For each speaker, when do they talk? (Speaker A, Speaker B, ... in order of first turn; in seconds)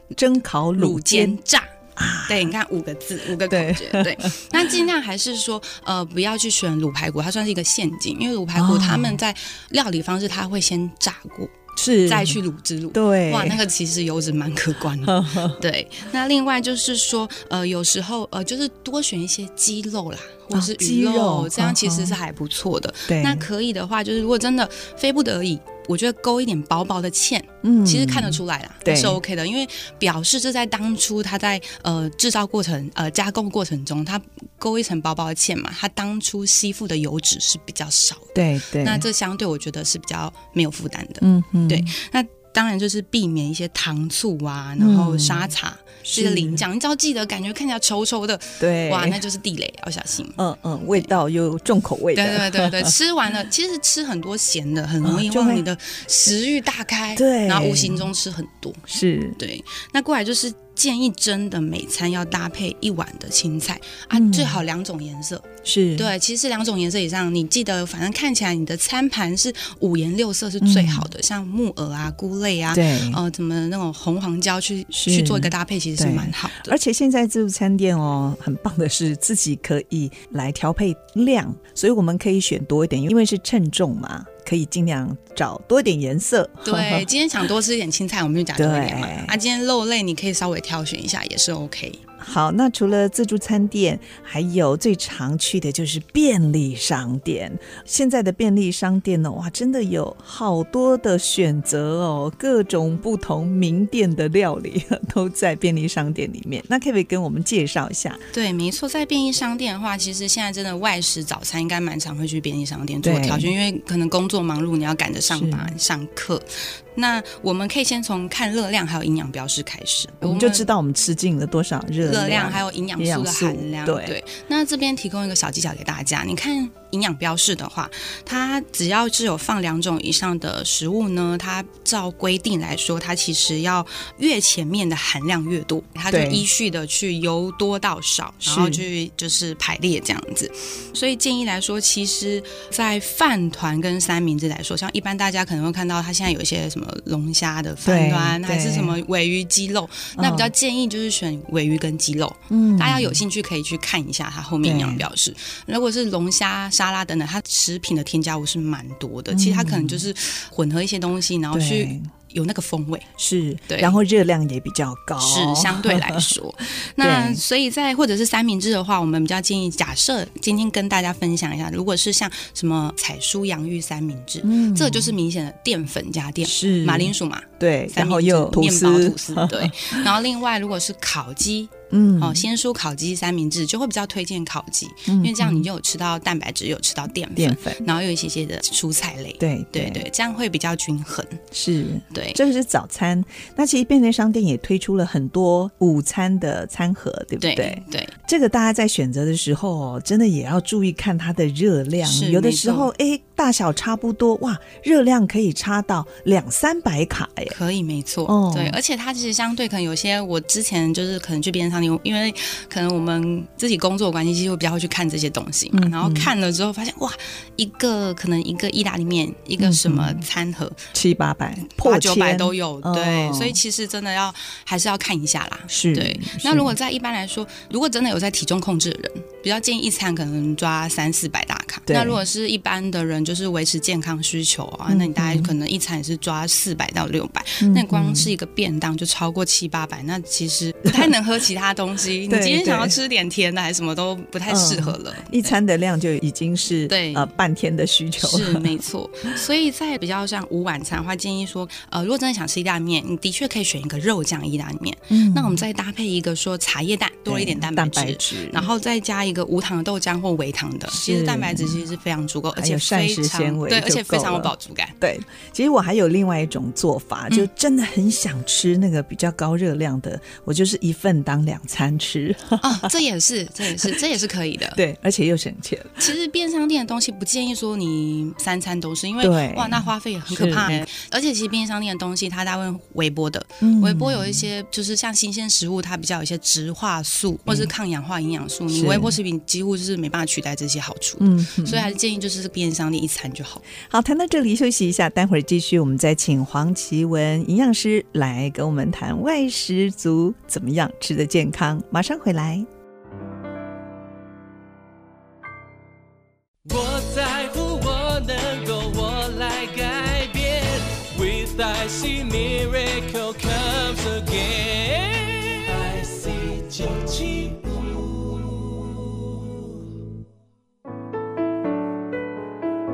Speaker A: 0.1-1.4, 2.0-2.5, 3.4-4.7, 8.6-9.2, 11.8-12.4, 12.9-13.6, 15.1-15.6, 20.5-22.2, 23.1-23.5, 27.6-29.2, 38.3-39.0, 41.2-41.9, 44.8-45.5, 46.0-46.6, 48.6-49.2, 50.4-52.9, 55.0-55.6, 57.2-58.1, 58.9-59.4, 64.1-64.6, 65.7-66.1, 70.6-71.1, 72.7-73.2, 74.9-87.1, 88.6-89.4, 92.2-108.2, 113.0-113.5, 115.3-115.7, 120.2-124.2, 136.1-136.5, 138.4-138.8, 147.8-149.0, 150.2-150.5, 152.5-153.2, 154.6-155.1, 159.3-160.1, 161.5-162.1, 163.2-167.4, 174.4-175.2, 176.4-180.1, 181.9-182.4, 185.1-185.7, 187.4-187.8, 189.4-190.1, 191.5-207.6, 208.3-208.8, 215.7-216.3, 219.6-220.2, 220.9-223.6, 225.7-226.8, 231.9-232.2, 234.9-235.5, 237.6-238.3, 242.3-242.9, 244.5-248.7, 255.1-255.6, 257.3-258.7, 260.9-261.8, 262.6-272.9, 274.8-276.1, 279.2-280.9, 283.6-284.5, 288.7-289.2, 291.2-291.9, 293.8-302.7
Speaker B: 0.7-1.7, 2.3-50.4, 52.1-58.9, 59.4-76.7, 86.6-92.0, 108.3-120.7, 122.0-163.1, 163.7-164.0, 165.2-191.4, 192.1-192.4, 197.4-198.1, 202.0-202.9, 207.5-220.8, 221.7-245.6, 246.9-247.3, 248.2-264.9, 272.6-274.8, 276.0-293.6
Speaker C: 306.6-319.8